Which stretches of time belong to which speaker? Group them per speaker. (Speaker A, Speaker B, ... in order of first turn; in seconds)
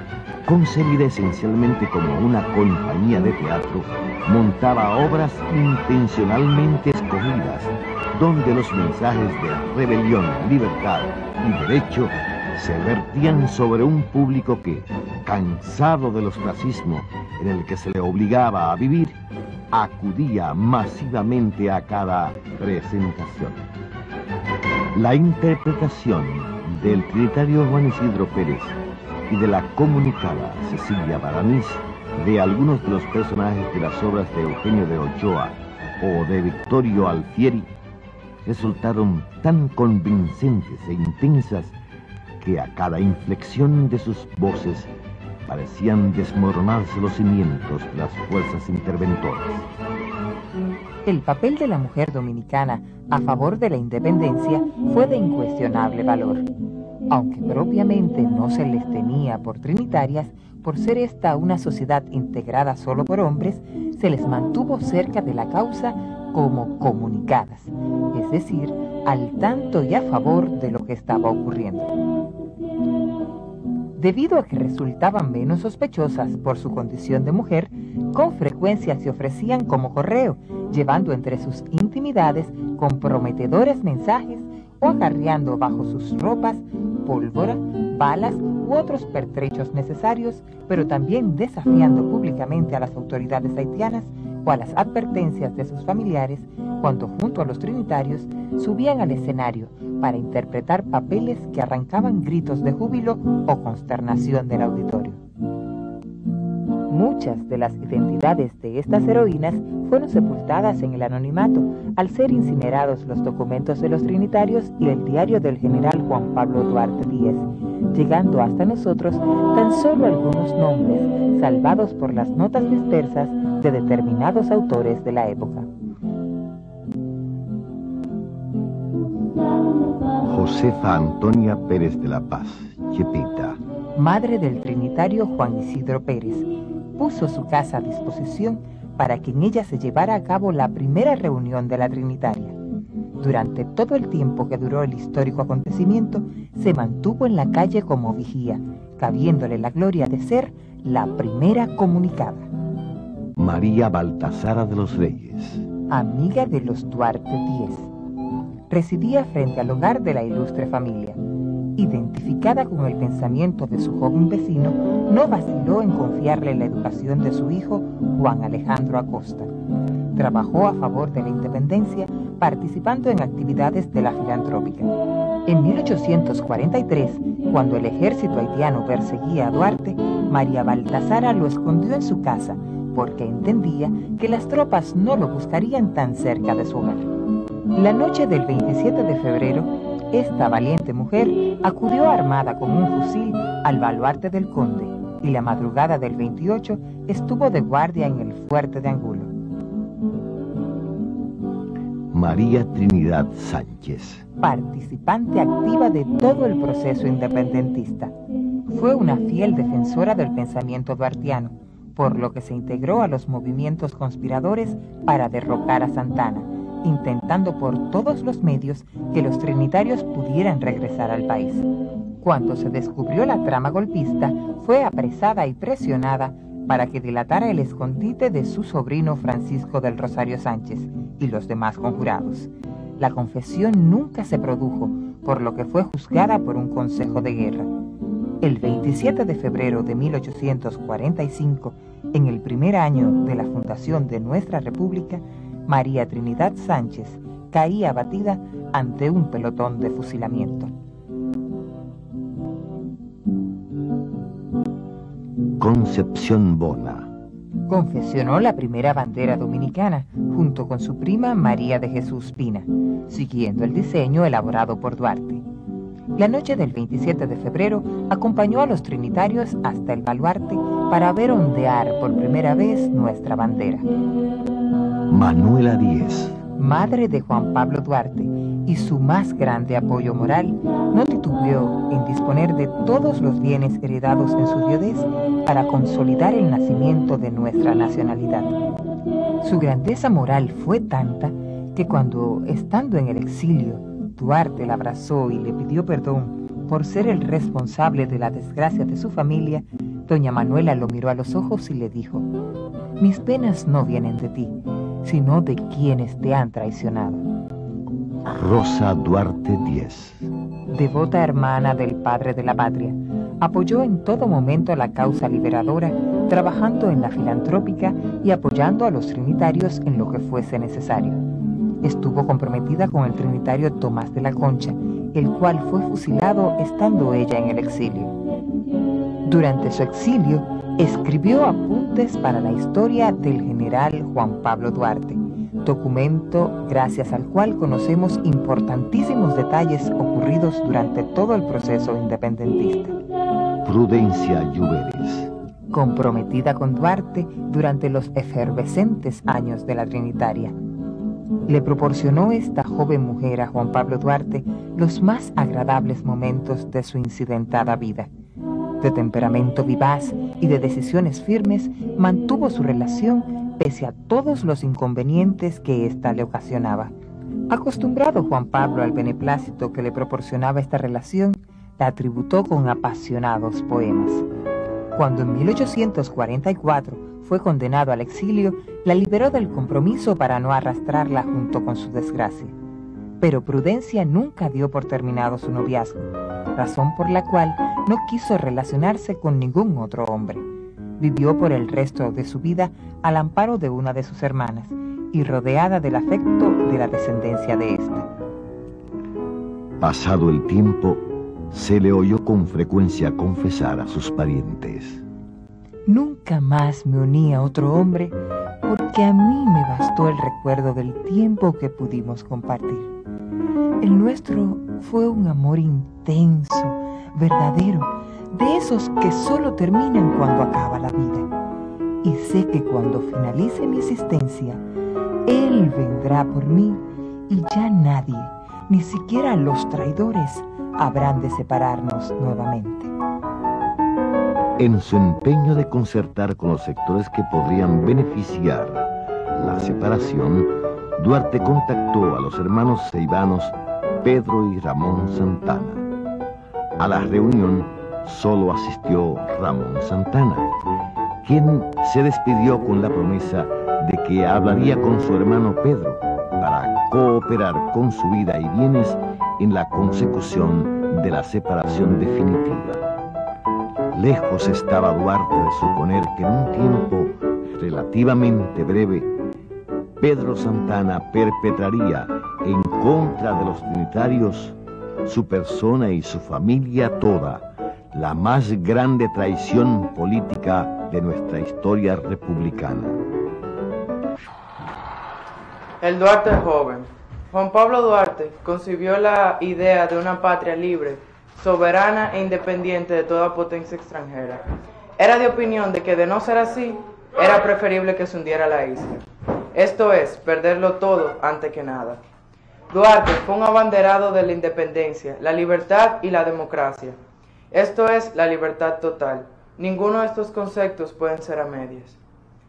Speaker A: 0.5-19.2, 19.7-23.6, 24.9-28.8, 29.3-37.7, 38.4-41.7, 42.4-44.9, 45.4-49.7, 130.2-133.6, 153.3-155.7, 202.1-204.2, 255.6-257.1, 275.1-276.4, 308.2-310.2, 343.6-345.3, 399.8-405.0, 434.6-445.8, 446.8-450.6, 451.2-462.8, 463.9-469.1, 470.0-483.0
Speaker B: 51.0-56.5, 57.1-71.9, 74.0-105.2, 106.9-125.7, 133.9-142.6, 143.2-152.5, 155.9-157.9, 158.7-161.2, 161.7-169.5, 170.1-174.9, 175.4-187.1, 187.7-199.3, 204.4-208.1, 208.7-221.7, 222.2-237.7, 238.4-250.7, 257.7-265.4, 266.1-273.9, 276.6-288.6, 289.4-302.3, 303.0-307.2, 310.7-321.2, 321.8-328.1, 329.2-342.9, 345.7-350.6, 351.5-358.1, 358.8-366.9, 367.5-374.2, 374.9-382.5, 383.2-390.4, 391.0-398.1, 405.9-412.9, 413.8-421.3, 422.0-424.6, 425.2-432.9
Speaker C: 485.8-499.0, 499.5-502.0, 502.7-507.0, 507.5-512.0